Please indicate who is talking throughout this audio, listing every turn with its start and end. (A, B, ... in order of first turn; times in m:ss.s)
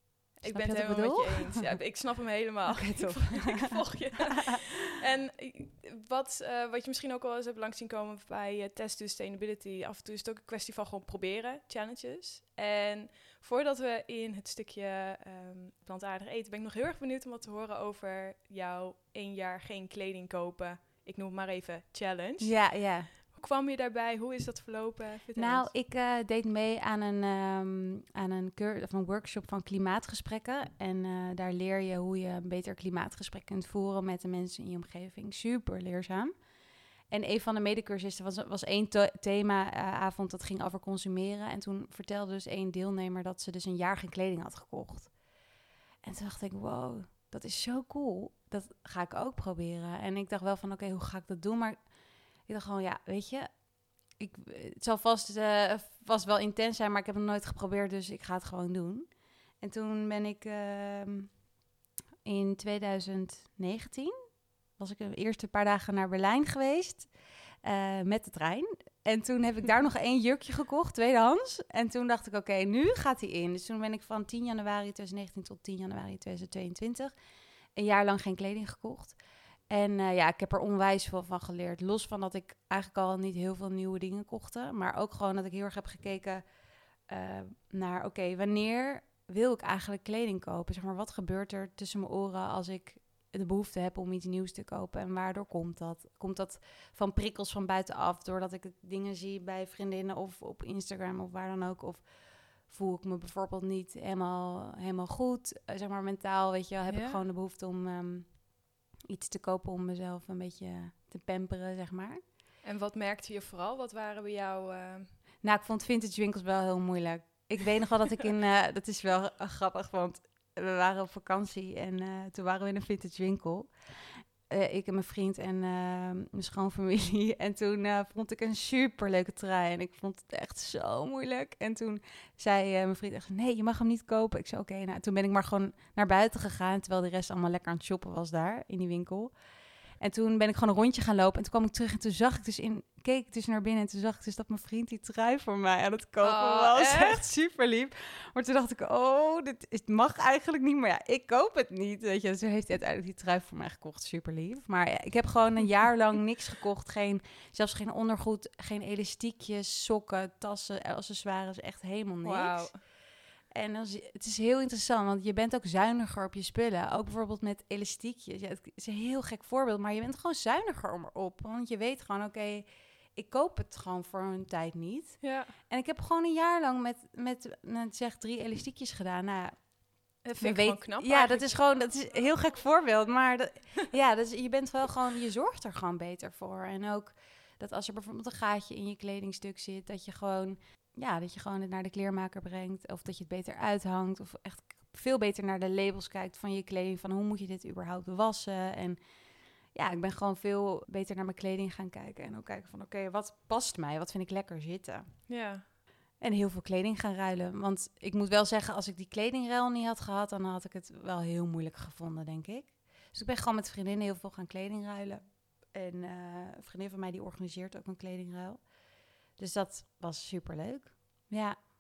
0:00.4-0:22.6 A
0:00.5-0:01.6 B
0:02.7-0:03.7 B
0:22.4-0:23.1 B
0:23.1-0:25.7 A
0:25.4-0:36.3 B
0:37.1-0:45.1 B
0:46.0-0:51.8 B
0:52.5-0:53.5 B
0:54.2-0:59.1 B
0:59.6-1:01.3 B
1:02.2-1:07.1 B
1:07.6-1:17.1 B
1:17.8-1:26.4 B
1:27.1-1:52.2 B
1:46.9-1:47.2 A
1:52.6-1:55.1 A
1:55.4-2:19.3 B
2:20.0-2:42.7 B
2:26.2-2:27.2 A
2:42.2-2:42.8 A
2:43.5-3:19.0 B
2:55.2-2:55.5 A
3:00.2-3:01.6 A
3:19.7-3:25.2 B
3:25.3-3:25.6 A
3:26.2-3:38.7 B
3:39.4-3:41.6 B